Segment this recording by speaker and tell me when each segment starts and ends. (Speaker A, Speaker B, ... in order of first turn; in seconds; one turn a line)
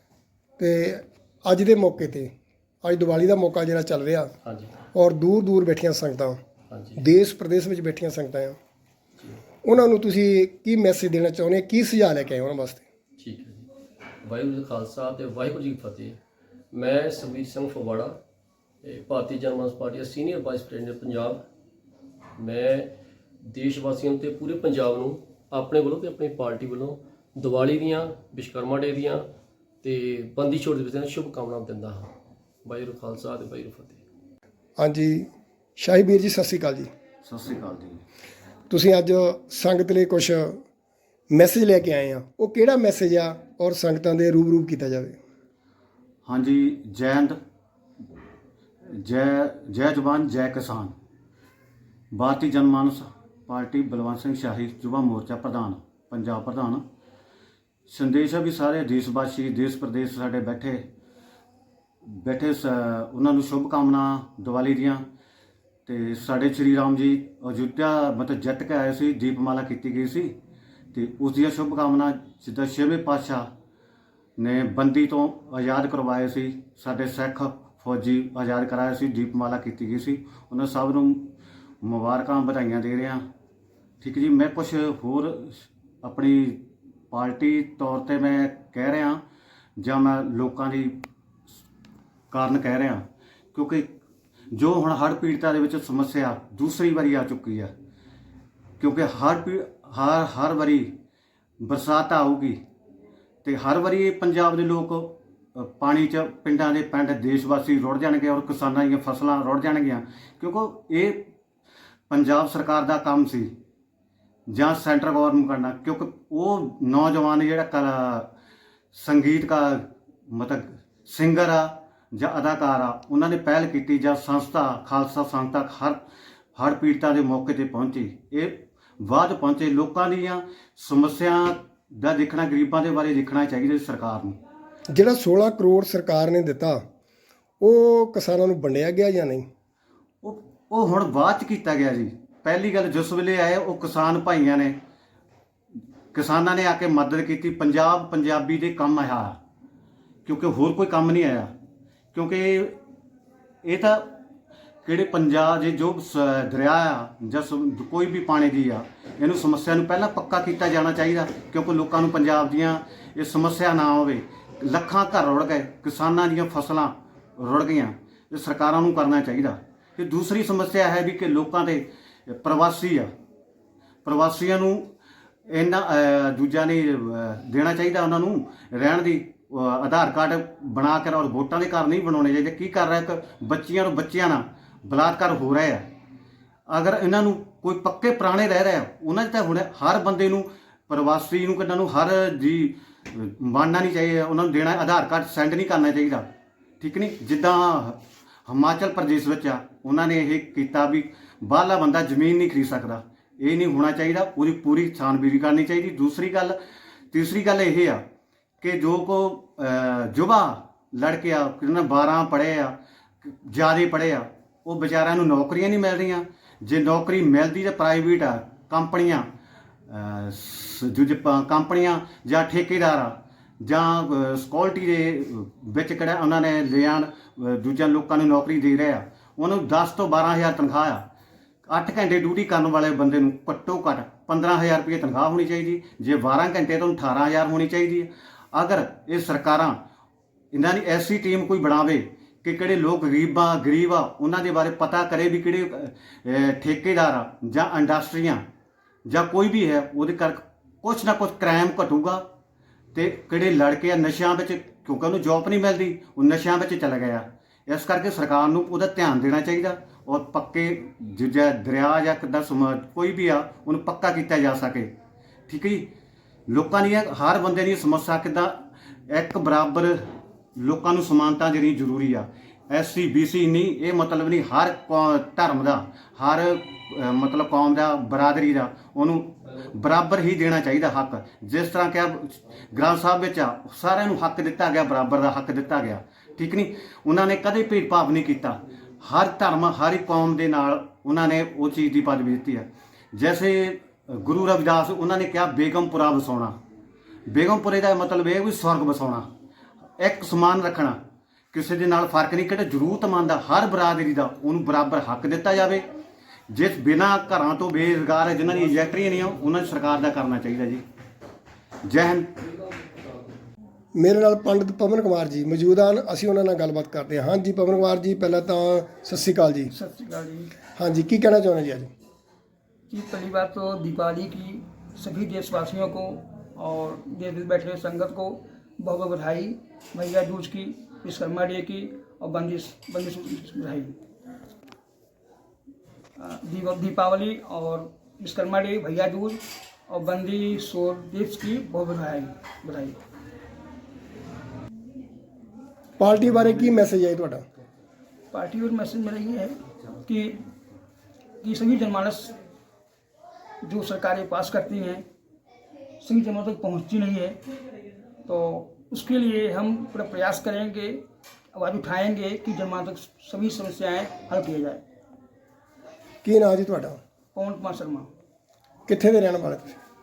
Speaker A: 0.6-2.3
Speaker A: 2.8-4.3
Speaker B: 4.4-4.8
Speaker A: 4.9-6.4
Speaker B: 6.7-7.0
Speaker A: 7.0-8.6
Speaker A: 9.6-12.8
Speaker B: 13.2-13.7
Speaker B: 14.2-16.2
Speaker B: 16.7-18.2
Speaker B: 18.8-21.4
Speaker B: 22.4-29.3
Speaker B: 29.8-32.1
Speaker B: 32.6-34.0
Speaker A: 34.8-36.9
Speaker C: 37.2-38.0
Speaker A: 38.7-40.6
Speaker A: 41.3-45.2
Speaker C: 46.2-47.3
Speaker C: 48.9-50.9
Speaker C: 52.1-56.8
Speaker C: 57.9-60.8
Speaker C: 62.0-65.0
Speaker C: 65.8-70.3
Speaker C: 70.9-73.5
Speaker C: 74.4-81.3
Speaker C: 81.8-83.2
Speaker C: 84.0-89.2
Speaker C: 89.8-91.0
Speaker C: 92.3-93.9
Speaker C: 94.5-97.7
Speaker C: 98.8-100.9
Speaker C: 101.6-102.6
Speaker C: 103.4-111.3
Speaker C: 112.1-113.5
Speaker C: 114.5-118.3
Speaker C: 118.9-126.0
Speaker C: 126.5-134.3
Speaker A: 134.9-136.8
Speaker A: 137.6-139.4
Speaker C: 140.2-144.8
Speaker C: 146.1-149.4
Speaker C: 150.2-151.5
Speaker C: 152.1-152.8
Speaker C: 153.6-154.1
Speaker C: 154.8-173.1
Speaker C: 174.0-174.9
Speaker C: 175.5-185.8
Speaker C: 186.7-196.3
Speaker C: 196.8-206.6
Speaker C: 207.1-208.0
Speaker C: 208.6-219.3
Speaker C: 219.9-231.0
Speaker C: 231.7-239.8
Speaker C: 240.5-248.4
Speaker C: 249.1-252.2
Speaker C: 252.9-264.9
Speaker C: 265.5-265.9
Speaker C: 266.5-270.0
Speaker C: 270.6-296.5
Speaker C: 297.3-299.2
Speaker C: 300.0-301.0
Speaker C: 301.5-305.8
Speaker C: 306.5-310.8
Speaker C: 311.8-312.3
Speaker A: 314.0-319.7
Speaker D: 319.7-320.5
Speaker A: 320.8-321.9
Speaker D: 322.9-333.9
Speaker D: 336.2-343.0
Speaker A: 346.0-347.4
Speaker D: 348.3-350.4
Speaker D: 351.4-352.3
Speaker D: 353.6-355.0
Speaker D: 356.0-357.4
Speaker D: 358.2-361.0
Speaker D: 361.5-364.8
Speaker A: 366.2-367.0
Speaker D: 367.3-368.1
Speaker A: 368.9-369.8